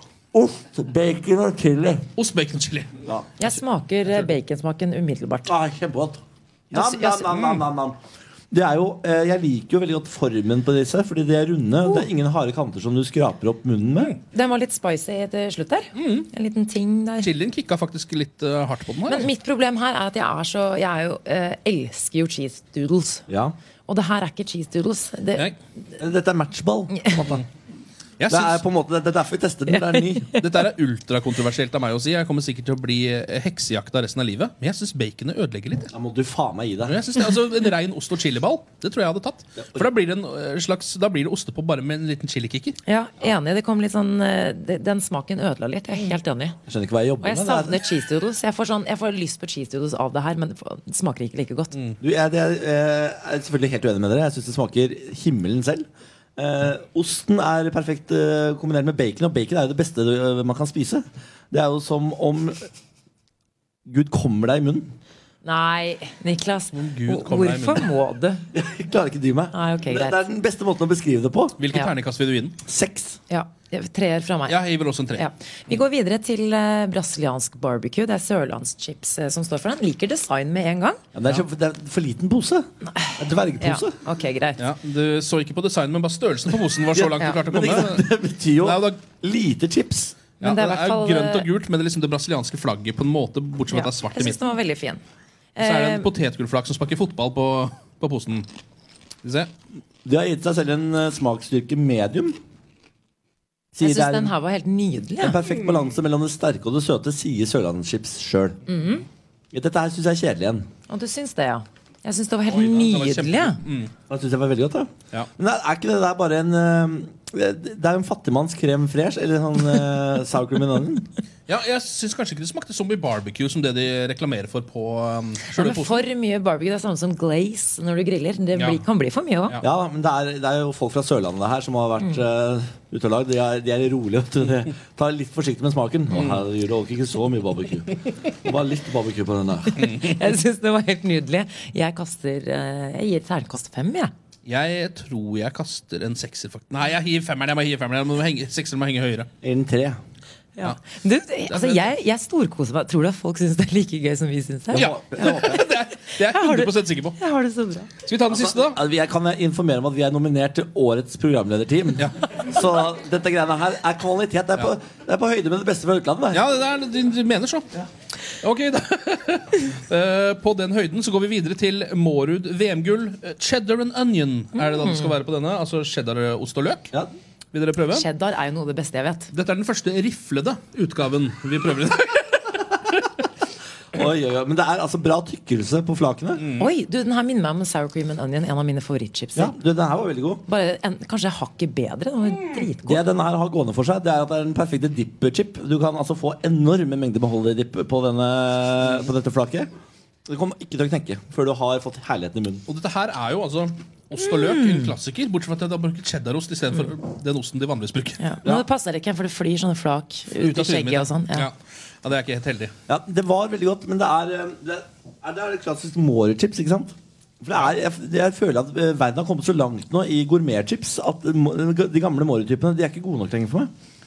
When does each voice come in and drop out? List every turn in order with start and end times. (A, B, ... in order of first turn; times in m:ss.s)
0:00.3-0:02.0 A
0:02.2-0:02.9 B
0:03.4-0:05.5 C
0:05.4-0:08.0 A
0:06.7-0:07.4 C
0:08.5-0:14.1 A
0:14.3-0:17.3 C
0:16.0-0:16.2 B
0:17.2-0:19.3 B
0:19.1-0:23.2 C
0:23.3-0:23.5 A
0:23.9-0:25.5 C
0:26.0-0:27.4 A
0:28.2-0:28.6 B
0:28.3-0:30.4 A
0:29.7-0:30.4 C
0:30.4-0:35.9 B
0:35.9-0:37.0 A
0:36.8-0:42.8 B
0:39.6-0:39.8 A
0:42.8-0:46.6 C
0:46.7-0:47.8 A
0:47.2-0:51.8 C
0:52.0-1:02.7 A
1:03.8-1:04.9 A
1:05.4-1:08.4 C
1:06.7-1:07.9 B
1:08.5-1:11.6 A
1:09.5-1:10.2 C
1:11.6-1:12.6 B
1:12.6-1:13.2 A
1:13.3-1:14.6 C
1:14.5-1:15.2 B
1:15.1-1:21.0 C
1:21.1-1:24.0 A
1:22.9-1:24.6 C
1:24.6-1:29.0 B
1:27.0-1:30.1 A
1:30.4-1:34.4 B
1:30.4-1:31.5 C
1:33.7-1:35.0 C
1:35.6-1:36.0 C
1:35.6-1:38.5 B
1:39.2-1:39.5 B
1:40.0-1:42.4 A
1:43.7-1:44.3 A
1:43.8-1:45.4 C
1:45.2-1:48.6 A
1:48.7-1:49.0 C
1:49.5-1:50.7 A
1:50.9-1:53.6 C
1:52.5-1:53.9 B
1:54.1-2:01.1 A
2:01.5-2:06.0 B
2:05.5-2:09.6 C
2:09.6-2:19.9 A
2:19.8-2:24.1 C
2:24.4-2:29.3 B
2:29.4-2:30.0 A
2:30.6-2:35.6 C
2:31.5-2:31.9 B
2:34.7-2:35.6 A
2:34.7-2:37.2 B
2:36.2-2:37.9 C
2:38.0-2:38.8 B
2:38.3-2:46.4 A
2:46.3-2:47.7 B
2:48.4-2:56.9 B
2:54.8-2:55.1 C
2:57.5-2:58.0 B
2:57.9-2:59.3 C
2:59.3-3:03.0 B
3:03.9-3:06.4 A
3:06.4-3:06.7 B
3:06.6-3:09.5 C
3:09.4-3:10.4 A
3:10.5-3:13.0 C
3:12.8-3:19.7 A
3:20.3-3:22.6 A
3:22.7-3:28.2 B
3:24.2-3:24.9 C
3:28.2-3:31.5 C
3:30.4-3:32.7 B
3:32.9-3:43.7 A